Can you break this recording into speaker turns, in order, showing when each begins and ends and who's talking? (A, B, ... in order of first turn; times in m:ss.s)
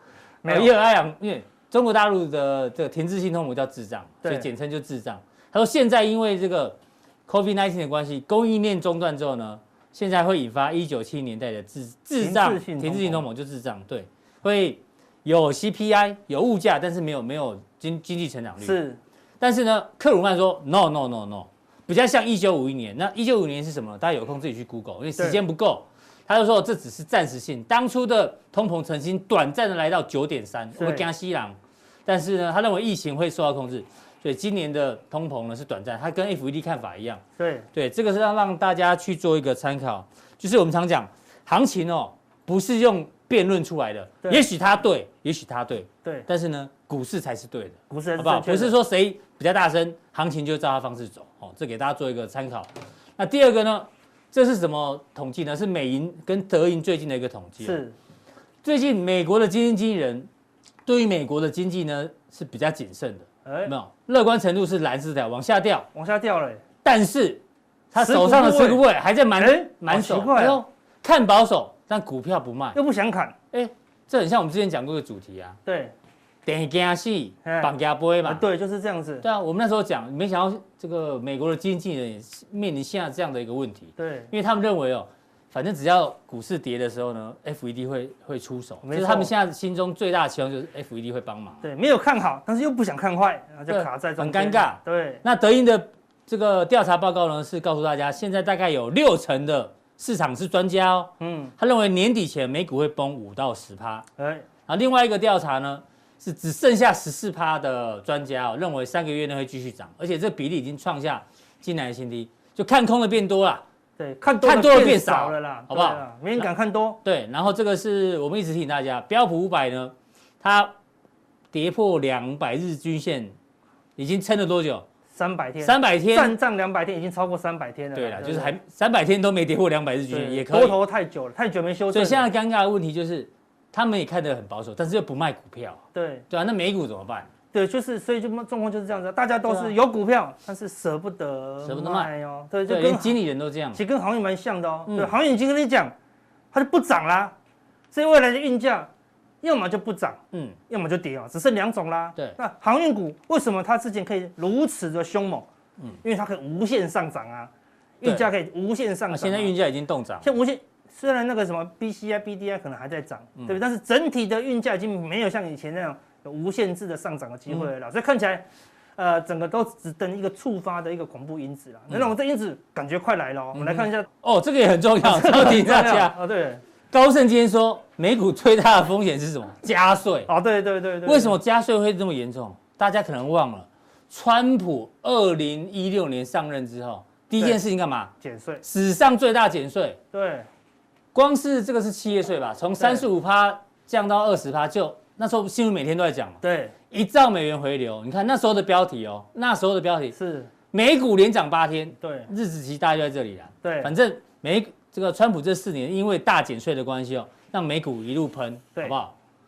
0:00.4-0:00.7 A
0:00.4-0:18.8 B
0:04.2-0:04.5 A
0:12.2-0:13.3 A
0:18.6-0:19.0 A
0:19.4-0:37.2 B
0:30.8-0:31.1 A
0:37.4-0:37.7 A
0:37.7-0:57.8 B
0:47.9-0:48.8 A
0:57.6-0:58.0 A
0:58.6-1:00.3 B
1:00.8-1:05.9 B
1:03.4-1:03.7 A
1:05.9-1:06.6 A
1:06.8-1:12.8 B
1:07.9-1:08.8 A
1:09.4-1:10.6 A
1:12.7-1:13.3 A
1:13.5-1:15.6 B
1:15.6-1:15.9 A
1:16.4-1:18.4 B
1:17.4-1:17.7 A
1:18.2-1:19.2 A
1:19.2-1:31.6 B
1:24.0-1:24.3 A
1:28.8-1:29.3 A
1:31.6-1:35.2 A
1:33.7-1:44.0 B
1:41.2-1:41.5 A
1:44.2-1:44.4 A
1:44.7-1:53.6 B
1:54.0-1:57.0 A
1:54.4-1:56.4 B
1:57.0-2:00.7 B
2:01.5-2:03.3 B
2:04.0-2:04.8 B
2:05.1-2:08.6 A
2:05.6-2:06.3 B
2:07.9-2:10.8 B
2:10.1-2:12.3 A
2:11.9-2:17.3 B
2:15.9-2:16.2 A
2:17.5-2:23.2 A
2:19.4-2:19.7 B
2:21.6-2:22.1 B
2:22.7-2:23.8 B
2:23.7-2:25.9 A
2:24.9-2:25.1 B
2:26.5-2:27.3 A
2:27.9-2:28.9 A
2:29.4-2:35.5 A
2:30.3-2:30.6 B
2:36.0-2:39.5 A
2:38.0-2:38.3 B
2:39.1-2:40.3 B
2:40.2-2:48.4 A
2:49.0-2:54.1 A
2:53.5-2:56.2 B
2:55.0-2:56.6 A
2:56.9-3:00.3 B
3:00.3-3:01.3 A
3:01.0-3:08.1 B
3:08.2-3:08.6 A
3:08.6-3:10.0 B
3:10.1-3:10.5 A
3:11.1-3:16.4 B
3:12.8-3:13.0 A
3:16.4-3:16.7 A
3:16.9-3:20.1 B
3:20.1-3:20.5 A
3:20.7-3:29.1 B
3:22.0-3:22.3 A
3:23.6-3:23.9 A